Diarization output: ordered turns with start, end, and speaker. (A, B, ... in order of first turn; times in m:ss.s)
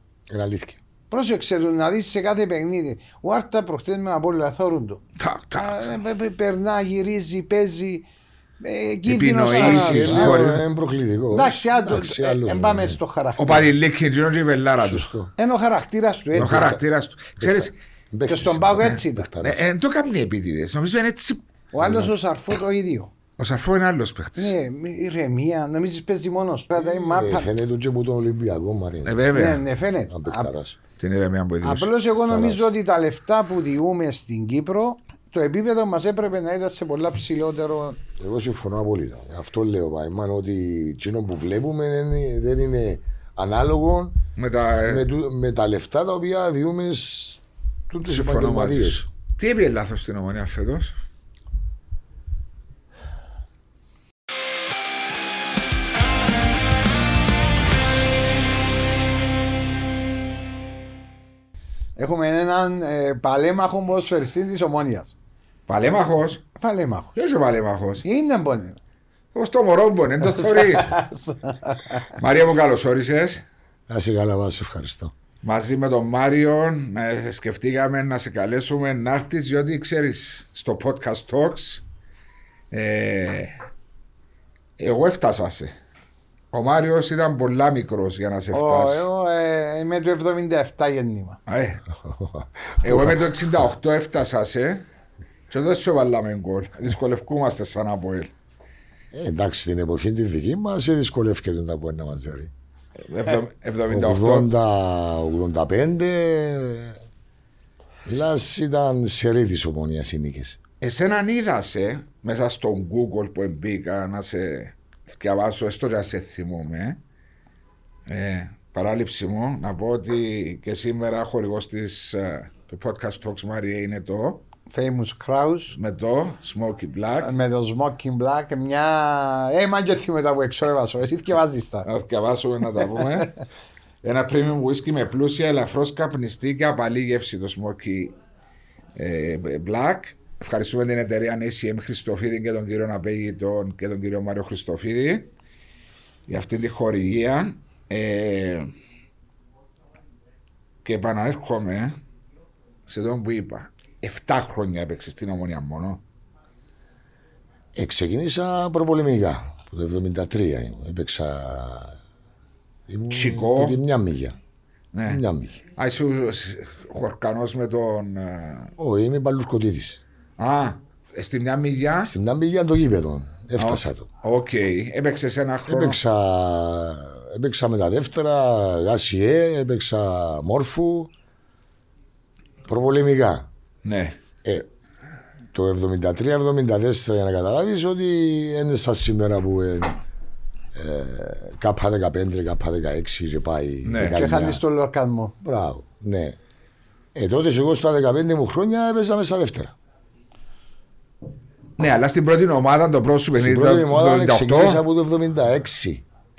0:00.3-0:00.8 A
0:01.1-0:05.0 B
0:05.2-0:05.9 C
0:05.6-0:08.1 B
0:08.6-0:10.5 B
0:09.1-0:10.6 C
0:09.5-0:13.0 A
0:11.3-0:13.7 B
0:13.4-0:15.1 C
0:14.8-0:15.3 A
0:15.4-0:16.7 B
0:16.3-0:16.8 A
0:16.4-0:17.7 C
0:17.4-0:19.6 A
0:18.3-0:19.3 B
0:19.4-0:21.4 C
0:21.7-0:23.1 B
0:21.8-0:22.1 A
0:23.4-0:24.6 C
0:24.4-0:27.5 B
0:26.8-0:29.3 A
0:29.0-0:29.6 C
0:29.3-0:30.5 B
0:30.1-0:30.8 A
0:31.0-0:31.9 C
0:31.6-0:38.0 B
0:32.3-0:32.7 A
0:38.2-0:44.2 A
0:44.4-0:45.1 C
0:44.9-0:49.0 A
0:48.0-0:51.0 C
1:02.0-1:05.2 B
1:05.7-1:06.4 C
1:06.6-1:07.1 B
1:07.2-1:08.0 C
1:08.0-1:08.8 B
1:09.4-1:11.0 C
1:10.3-1:12.1 B
1:12.2-1:13.4 C
1:13.9-1:15.1 A
1:15.4-1:21.8 C
1:22.7-1:23.6 C
1:24.8-1:25.7 C
1:26.5-1:29.1 C
1:28.5-1:31.4 B
1:31.5-1:31.8 C
1:32.0-1:33.3 A
1:32.8-1:34.9 C
1:35.5-1:38.3 C
1:39.1-1:42.5 A
1:43.0-1:44.5 C
1:43.9-1:47.0 A
1:48.1-1:50.6 A
1:50.8-1:57.0 C
1:58.1-2:04.4 C
2:04.7-2:05.8 B
2:05.7-2:07.3 C
2:07.2-2:11.9 B
2:11.8-2:13.3 C
2:14.0-2:18.2 C
2:19.0-2:25.3 C
2:26.3-2:28.7 C
2:30.8-2:32.0 C
2:32.9-2:36.0 C
2:37.8-2:42.0 A
2:42.9-2:44.4 A
2:43.1-2:43.8 C
2:44.9-2:45.2 C
2:45.1-2:45.6 A
2:45.8-2:48.7 C
2:48.8-2:50.0 A
2:50.4-2:52.1 C
2:52.1-2:54.1 A
2:53.6-2:56.0 C
2:55.7-3:01.1 A
3:02.7-3:03.5 A
3:03.8-3:04.2 C
3:05.5-3:10.0 A
3:10.8-3:14.6 A
3:13.8-3:14.2 C
3:14.1-3:15.4 B
3:15.4-3:16.4 A
3:17.2-3:19.7 A
3:21.8-3:24.8 C
3:23.4-3:26.0 A